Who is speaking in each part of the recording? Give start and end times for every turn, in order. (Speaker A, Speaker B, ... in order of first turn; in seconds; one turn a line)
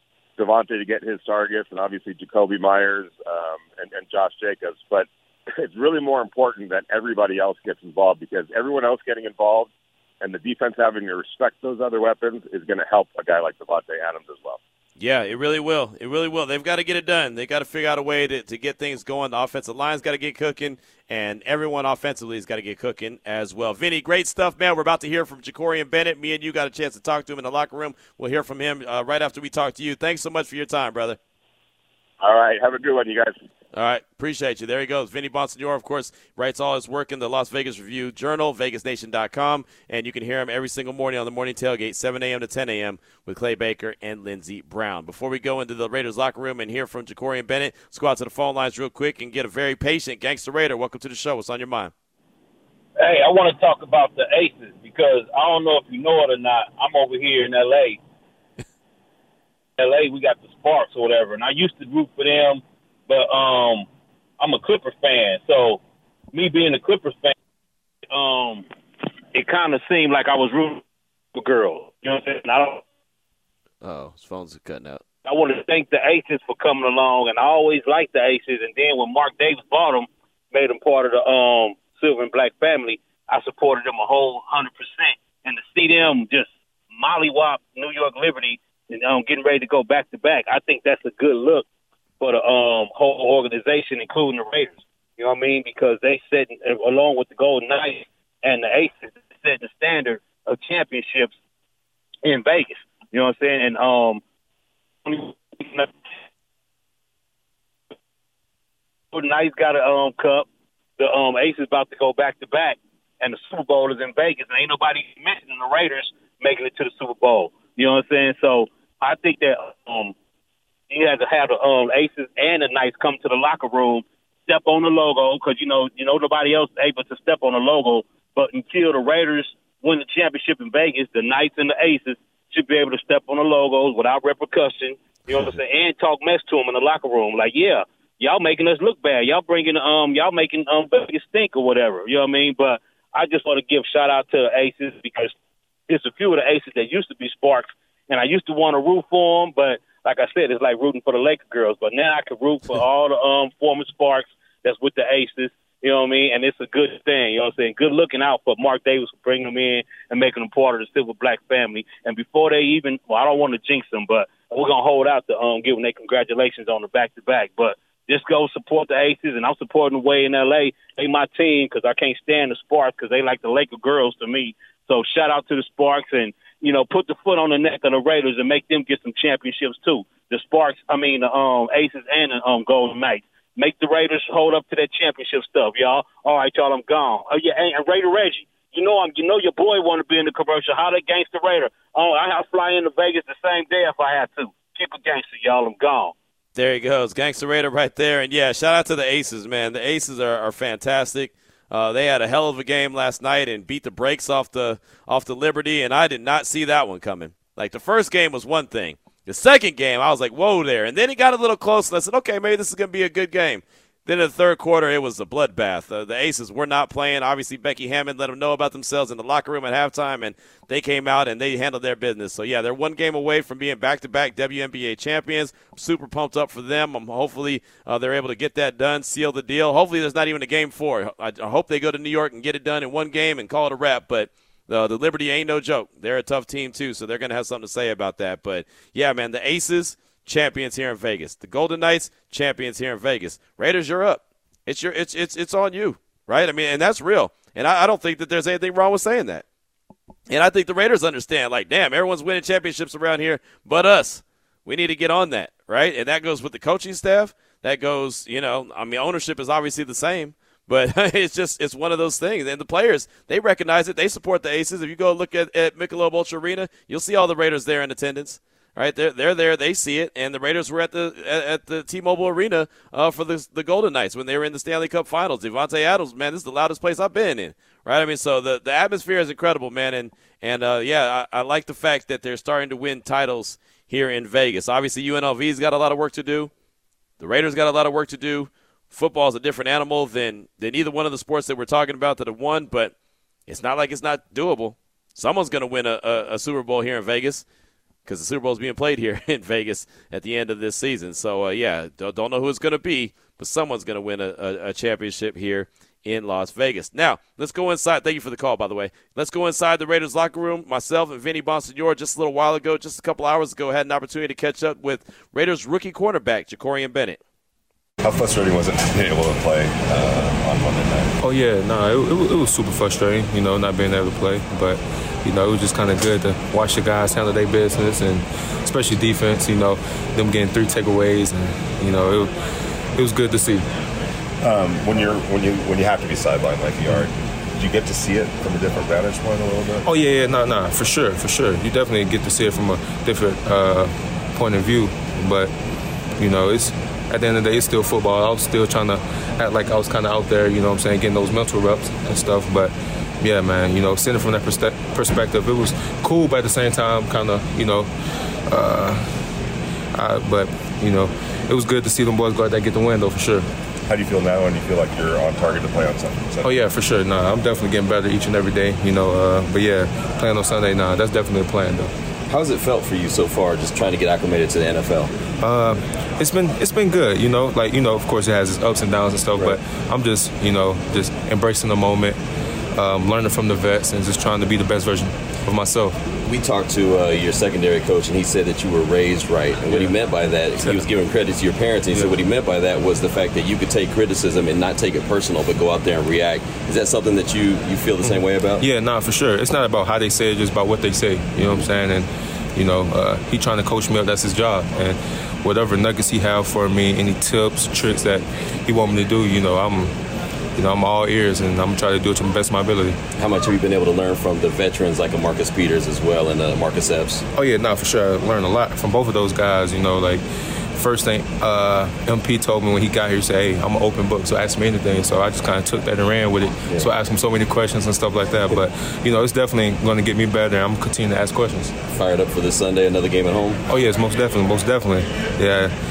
Speaker A: 0.4-9.7
Speaker A: 10.2-14.6
Speaker B: 15.0-31.2
Speaker A: 32.2-33.4
Speaker B: 33.7-51.9
Speaker C: 53.0-58.0
Speaker C: 59.8-63.9
Speaker C: 64.4-65.8
Speaker C: 66.3-67.3
Speaker C: 68.1-68.6
Speaker C: 69.3-70.8
Speaker C: 71.3-72.8
Speaker B: 73.8-75.0
Speaker C: 75.2-91.7
Speaker C: 92.2-101.3
Speaker C: 102.2-104.2
Speaker C: 105.0-105.9
Speaker C: 109.1-110.5
Speaker C: 111.0-120.1
Speaker C: 120.9-145.3
Speaker C: 145.9-196.1
Speaker B: 196.5-249.4
Speaker B: 250.3-286.5
Speaker B: 287.2-292.9
Speaker B: 293.5-297.4
Speaker B: 298.1-317.2
Speaker D: 318.0-321.1
Speaker E: 321.2-332.3
Speaker E: 332.9-333.6
Speaker D: 334.4-339.9
Speaker E: 339.8-345.5
Speaker E: 346.2-357.9
Speaker E: 358.5-359.0
Speaker E: 359.9-363.4
Speaker D: 363.9-366.5
Speaker E: 366.4-371.9
Speaker F: 372.3-375.1
Speaker E: 375.4-382.2
Speaker E: 382.8-386.0
Speaker F: 386.2-398.6
Speaker E: 389.7-389.9
Speaker E: 398.1-409.9
Speaker F: 401.4-401.6
Speaker E: 410.6-413.0
Speaker F: 413.2-417.2
Speaker E: 417.4-420.2
Speaker E: 420.7-431.7
Speaker F: 431.9-433.6
Speaker E: 433.7-435.7